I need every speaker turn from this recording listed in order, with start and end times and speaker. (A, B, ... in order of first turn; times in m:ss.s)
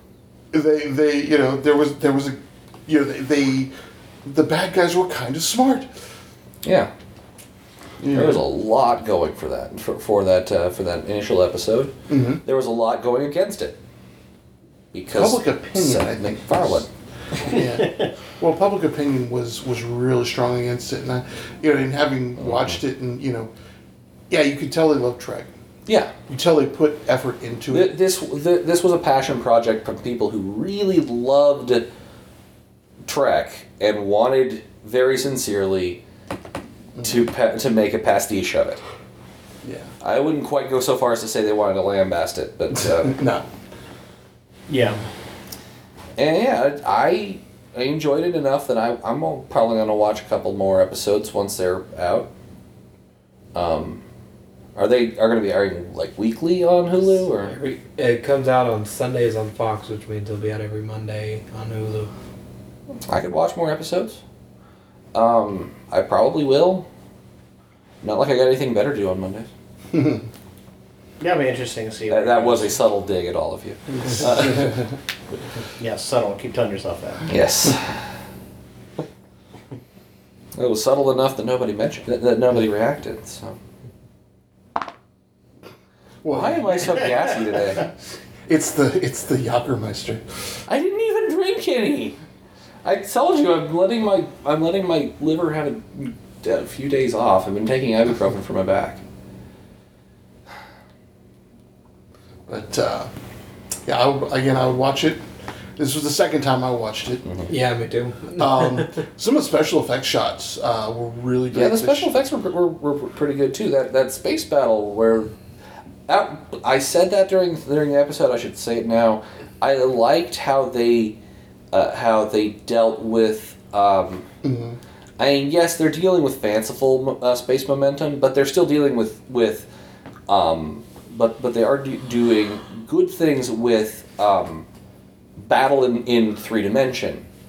0:00.5-0:03.7 A
0:04.2-0:05.9 A
0:06.6-0:06.9 B
0:08.0-0:08.4 A
0:08.1-0:13.8 B
0:12.1-0:12.4 A
0:14.9-0:17.5 B
0:15.1-0:23.5 A
0:17.5-0:18.1 C
0:22.4-0:22.8 B
0:24.3-0:25.5 A
0:25.8-0:26.1 B
0:26.3-0:27.9 A
0:27.7-0:31.9 B
0:33.1-0:36.0 B
0:37.0-0:37.2 A
0:37.0-0:38.8 B
0:39.6-0:39.9 A
0:40.0-0:43.2 B
0:42.7-0:43.4 A
0:44.7-0:45.0 C
0:46.2-0:52.3 B
0:53.6-0:54.0 B
0:54.7-0:57.6 B
0:57.4-1:02.1 D
1:03.1-1:04.2 B
1:05.1-1:06.9 B
1:08.0-1:09.5 B
1:09.9-1:10.3 A
1:11.2-1:12.8 C
1:12.1-1:14.8 B
1:14.2-1:14.8 A
1:15.8-1:17.3 C
1:17.3-1:18.1 B
1:20.6-1:23.6 B
1:26.2-1:27.1 A
1:26.3-1:27.9 B
1:28.5-1:30.2 A
1:30.7-1:32.2 B
1:32.8-1:39.0 B
1:42.5-1:43.1 A
1:43.8-1:45.2 A
1:45.8-1:47.3 A
1:47.5-1:49.0 D
1:48.3-1:52.1 A
1:51.5-1:55.3 B
1:56.1-2:01.2 B
2:01.7-2:04.3 B
2:04.4-2:04.8 A
2:05.2-2:09.7 B
2:10.3-2:14.7 B
2:15.4-2:17.3 B